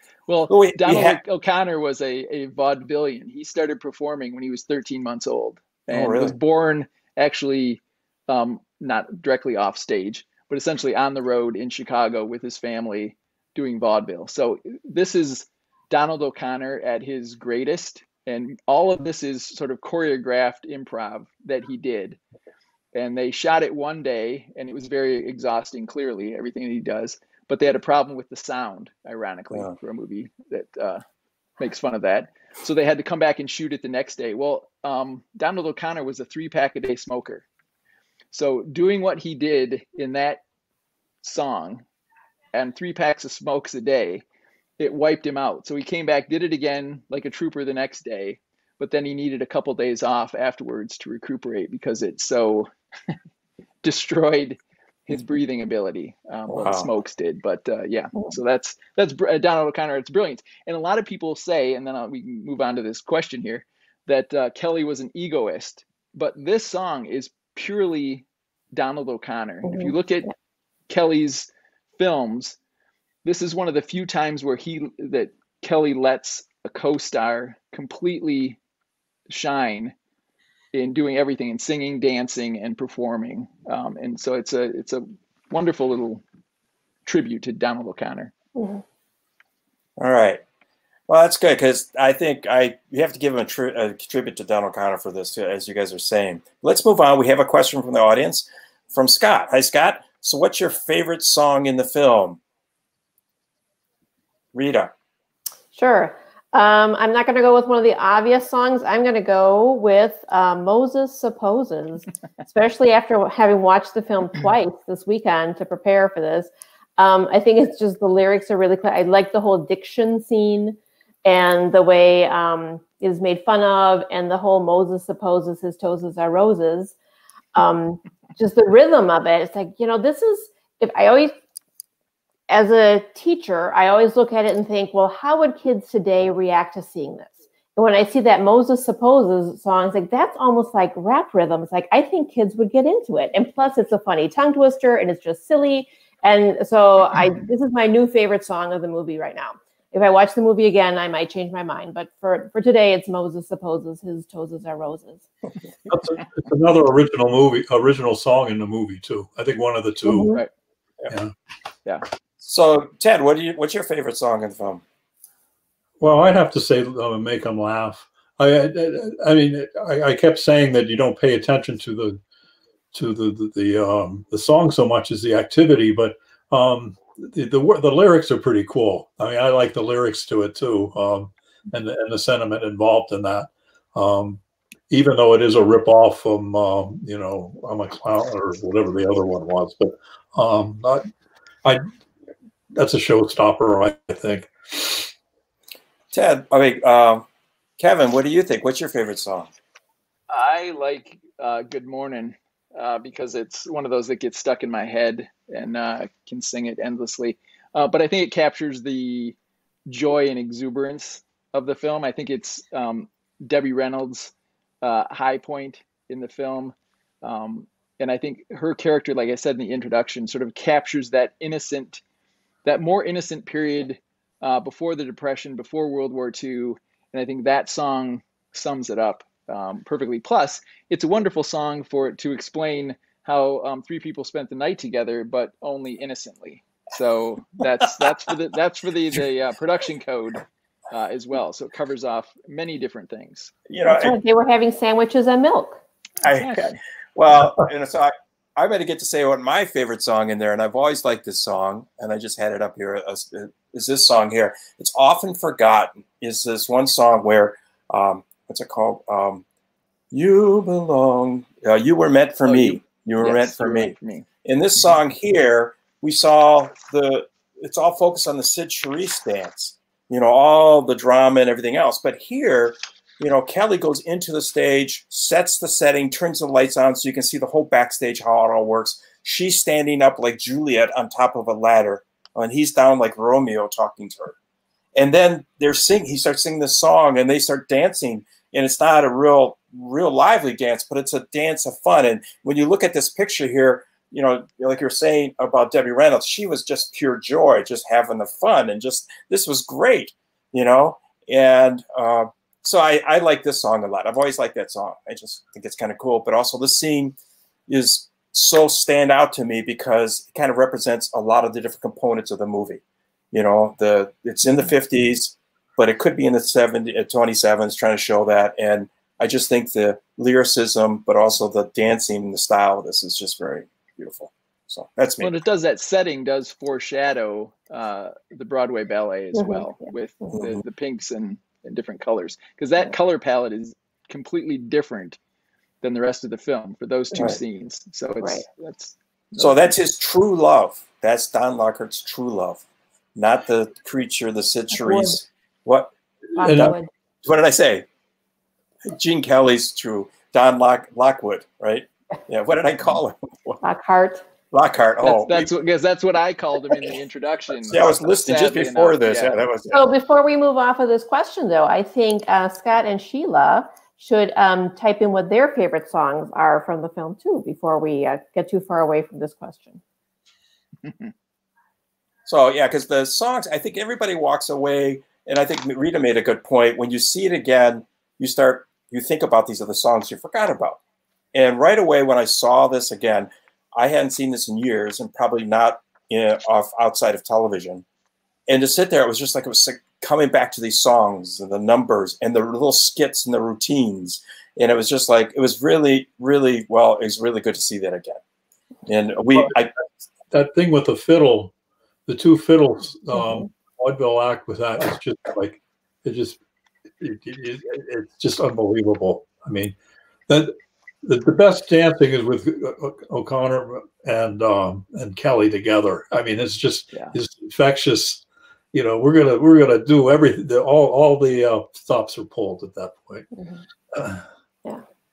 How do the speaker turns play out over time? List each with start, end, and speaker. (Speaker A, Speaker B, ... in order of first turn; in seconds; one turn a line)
Speaker A: 0.3-22.2
Speaker B: 0.5-1.2
Speaker B: 5.9-6.3
Speaker A: 22.9-31.0
Speaker A: 31.6-37.4
Speaker A: 38.3-40.4
Speaker A: 41.2-41.8
Speaker A: 42.5-44.2
Speaker A: 44.8-52.7
Speaker A: 53.8-70.3
Speaker B: 56.5-56.9
Speaker C: 69.6-70.3
Speaker A: 70.9-72.6
Speaker A: 73.2-78.6
Speaker A: 79.3-79.9
Speaker A: 80.7-86.2
Speaker A: 87.0-88.3
Speaker C: 88.5-88.8
Speaker B: 90.0-90.4
Speaker B: 91.1-102.4
Speaker B: 104.5-104.9
Speaker C: 105.7-126.9
Speaker C: 127.5-131.3
Speaker C: 132.5-155.2
Speaker D: 155.9-160.3
Speaker C: 160.0-160.4
Speaker B: 162.4-164.8
Speaker D: 166.0-172.2
Speaker D: 172.9-191.0
Speaker D: 192.8-195.1
Speaker B: 196.1-197.2
Speaker B: 197.8-199.5
Speaker A: 200.3-209.3
Speaker A: 209.9-222.0
Speaker A: 222.6-243.5
Speaker B: 243.7-244.2
Speaker C: 243.8-245.8
Speaker A: 246.2-246.8
Speaker B: 246.2-259.4
Speaker B: 260.1-284.4
Speaker A: 262.4-264.3
Speaker B: 284.9-307.1
Speaker B: 307.7-325.3
Speaker A: 325.2-335.2
Speaker C: 329.3-329.6
Speaker B: 330.4-330.6
Speaker A: 335.8-339.7
Speaker B: 339.4-342.6
Speaker B: 343.1-345.9
Speaker C: 344.8-345.2
Speaker C: 346.4-346.9
Speaker B: 346.4-347.9
Speaker D: 346.4-346.7
Speaker B: 348.8-353.6
Speaker C: 353.6-354.3
Speaker B: 354.5-355.5
Speaker A: 355.0-359.4
Speaker B: 357.7-359.9
Speaker C: 359.7-369.8
Speaker A: 370.8-371.1
Speaker B: 372.2-380.8
Speaker B: 381.3-387.8
Speaker B: 388.5-398.2
Speaker B: 398.9-399.7
Speaker D: 400.3-401.5
Speaker D: 402.1-406.4
Speaker D: 407.0-409.7
Speaker D: 410.3-423.3
Speaker C: 423.3-423.6
Speaker D: 423.9-424.2